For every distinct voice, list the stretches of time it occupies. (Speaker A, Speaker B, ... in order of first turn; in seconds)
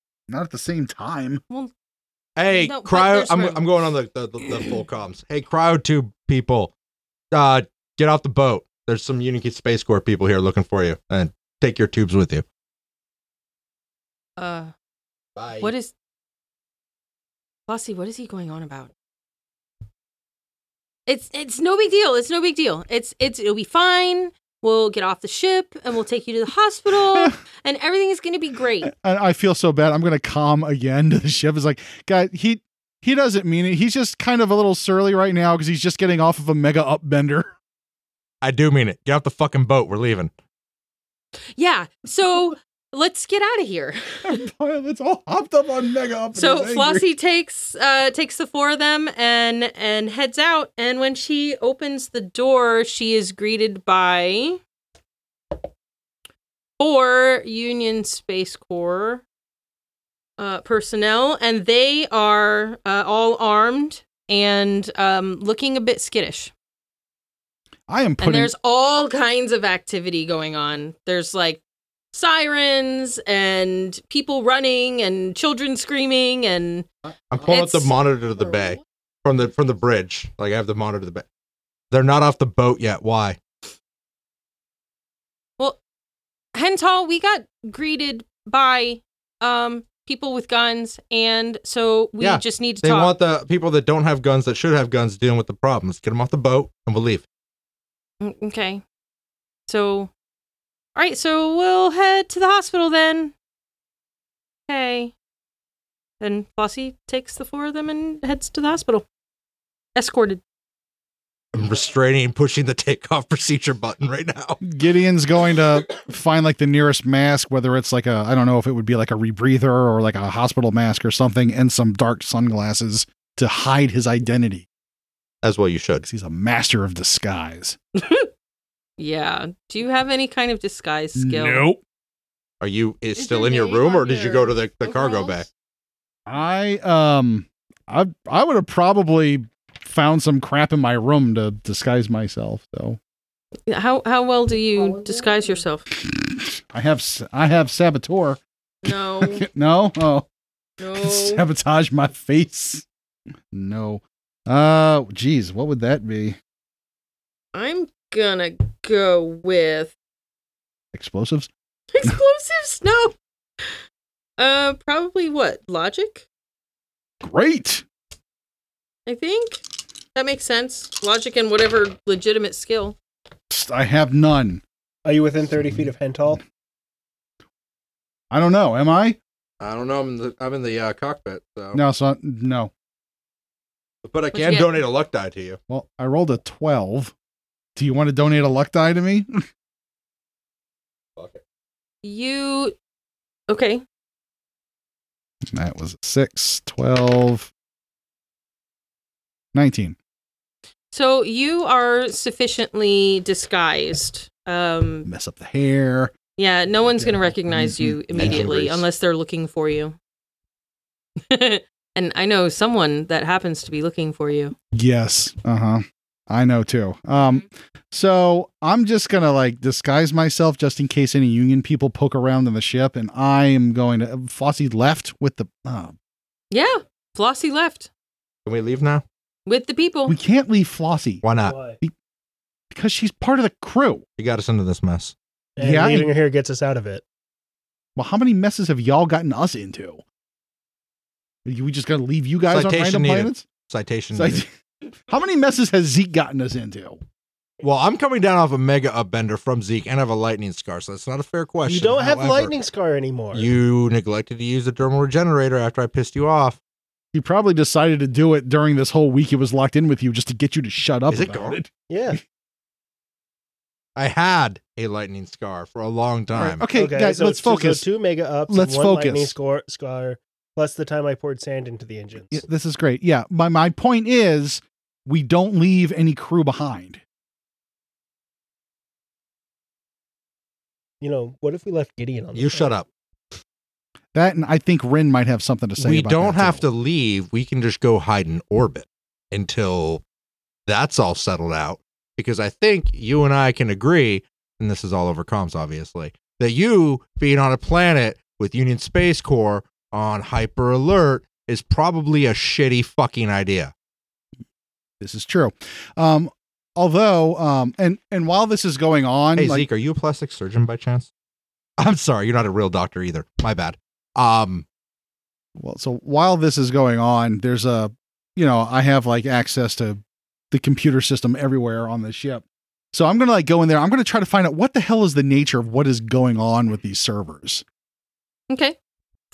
Speaker A: 0.3-1.4, 28.8-37.5, 44.2-47.0, 67.9-68.5, 114.6-124.7, 126.0-127.8, 131.1-131.8, 136.2-143.0, 146.1-150.2, 150.9-152.8, 153.5-156.4, 160.9-161.5, 167.2-167.8, 173.5-174.6, 175.6-175.9, 178.3-179.2, 181.7-182.7, 185.7-187.1, 187.8-189.3, 195.5-197.5, 199.5-199.9, 205.0-206.1, 207.0-208.8, 214.7-225.9, 230.1-231.3, 232.7-234.0, 235.6-236.1, 237.9-240.0, 241.4-243.4, 244.1-244.5, 245.1-247.0, 257.1-262.1, 266.3-267.9, 268.5-269.4, 272.3-277.0, 284.1-286.7, 305.0-309.6, 315.6-327.6
Speaker B: 2.4-6.7, 7.3-12.4, 15.3-15.7, 38.4-40.3, 77.3-81.2, 81.9-83.4, 92.2-97.2, 111.5-114.6, 125.4-126.0, 132.6-135.5, 179.6-181.8, 184.0-185.6, 208.1-208.7, 228.4-229.0, 231.2-231.6, 234.2-235.1, 242.5-244.4, 247.6-252.6, 253.3-256.6, 261.1-261.6, 263.9-266.7, 282.3-282.9, 285.8-290.0, 290.7-303.7, 309.4-311.1, 311.8-314.6
Speaker C: 2.4-3.8, 14.4-14.7, 15.6-15.9, 17.7-18.9, 21.1-28.9, 41.5-44.4, 46.3-54.6, 56.8-59.2, 60.4-66.5, 68.2-71.6, 72.1-76.9, 77.4-77.9, 86.5-93.1, 98.2-98.8, 99.7-100.1, 100.9-103.3, 104.7-105.1, 106.2-109.0, 109.9-110.4, 128.0-128.3, 129.0-131.7, 133.2-135.4, 143.7-145.8, 148.8-149.4, 150.8-151.4, 157.5-159.9, 161.9-163.1, 164.4-166.2, 169.1-169.6, 170.1-172.9, 184.3-184.8, 192.0-192.7, 193.5-193.8, 200.9-205.1, 206.4-209.9, 211.2-214.5, 226.5-227.9, 229.4-230.1, 328.5-328.8
Speaker D: 175.0-176.4, 231.4-231.8, 235.6-237.0, 251.6-253.5, 261.9-262.2, 266.7-272.4, 281.0-282.7